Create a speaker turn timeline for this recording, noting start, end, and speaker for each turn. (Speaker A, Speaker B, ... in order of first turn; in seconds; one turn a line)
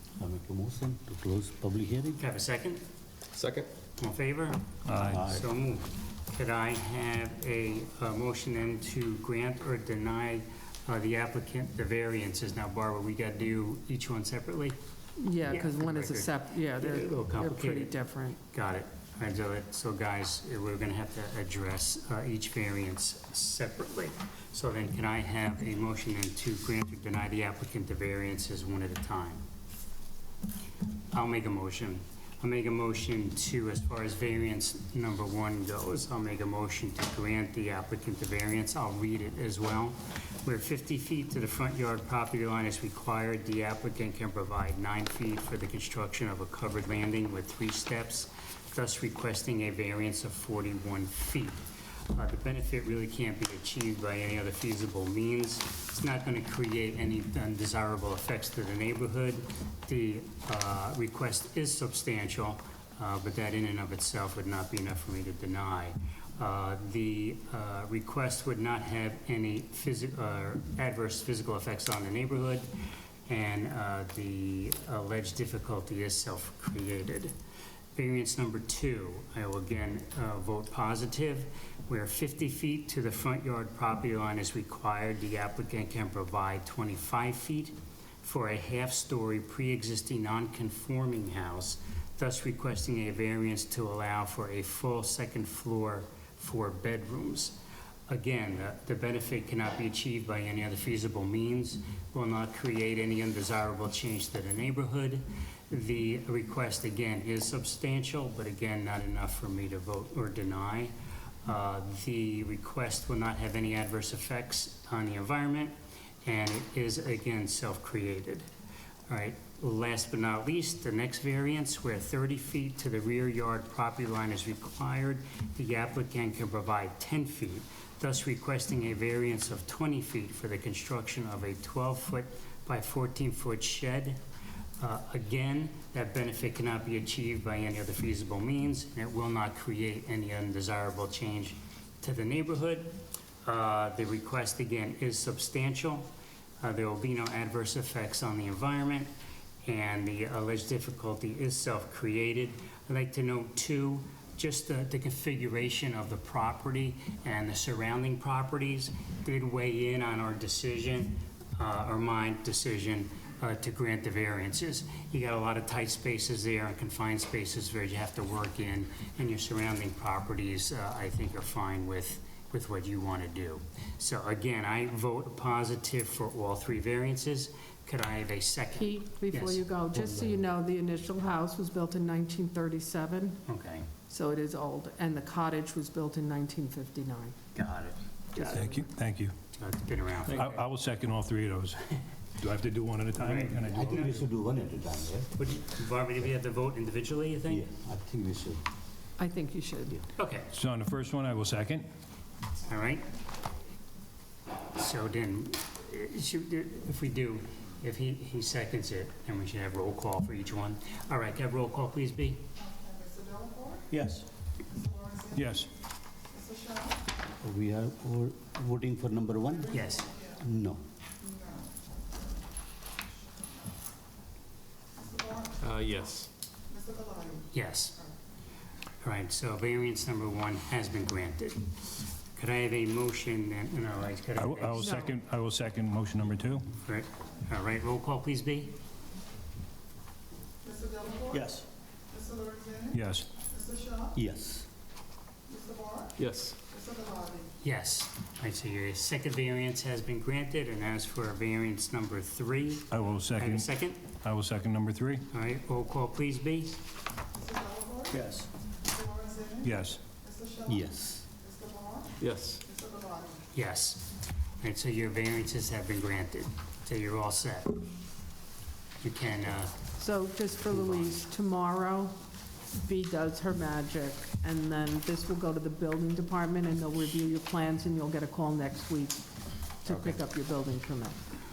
Speaker A: 0.2-2.2
Speaker B: 2.2-2.8
Speaker C: 3.3-3.7
Speaker B: 4.0-14.8
Speaker D: 4.9-5.2
Speaker A: 5.1-5.4
Speaker E: 15.2-18.4
Speaker B: 15.5-29.4
Speaker B: 31.1-72.7
Speaker B: 73.3-77.3
Speaker B: 77.9-97.6
Speaker B: 98.1-110.9
Speaker B: 111.4-115.7
Speaker B: 116.2-118.5
Speaker B: 119.1-134.2
Speaker B: 134.8-142.9
Speaker B: 143.4-146.1
Speaker B: 146.6-149.1
Speaker B: 149.6-179.6
Speaker E: 178.8-183.4
Speaker A: 179.9-180.4
Speaker B: 183.5-183.9
Speaker E: 184.1-187.3
Speaker B: 187.5-188.7
Speaker E: 188.4-188.8
Speaker D: 188.4-189.3
Speaker B: 189.5-190.6
Speaker D: 190.2-194.2
Speaker B: 193.2-194.0
Speaker A: 193.7-195.4
Speaker B: 195.4-197.7
Speaker A: 197.5-198.6
Speaker E: 199.2-200.0
Speaker B: 200.1-200.5
Speaker D: 200.5-201.9
Speaker B: 202.7-203.0
Speaker B: 204.7-212.4
Speaker A: 213.9-214.2
Speaker D: 215.3-215.7
Speaker A: 217.4-220.8
Speaker B: 219.7-220.1
Speaker C: 225.6-226.3
Speaker B: 227.5-228.0
Speaker B: 229.0-235.0
Speaker D: 234.3-236.7
Speaker E: 234.8-235.1
Speaker B: 236.8-238.7
Speaker A: 241.3-241.7
Speaker D: 242.9-243.3
Speaker A: 244.1-244.7
Speaker C: 246.2-246.6
Speaker B: 247.6-254.0
Speaker D: 252.9-255.2
Speaker B: 255.3-256.8
Speaker A: 258.1-258.5
Speaker D: 259.6-260.0
Speaker A: 260.6-261.2
Speaker C: 262.2-262.6
Speaker B: 263.5-264.1
Speaker B: 264.6-267.8
Speaker B: 269.0-269.7
Speaker E: 270.0-272.1
Speaker E: 272.7-279.2
Speaker E: 279.8-281.2
Speaker C: 279.9-280.2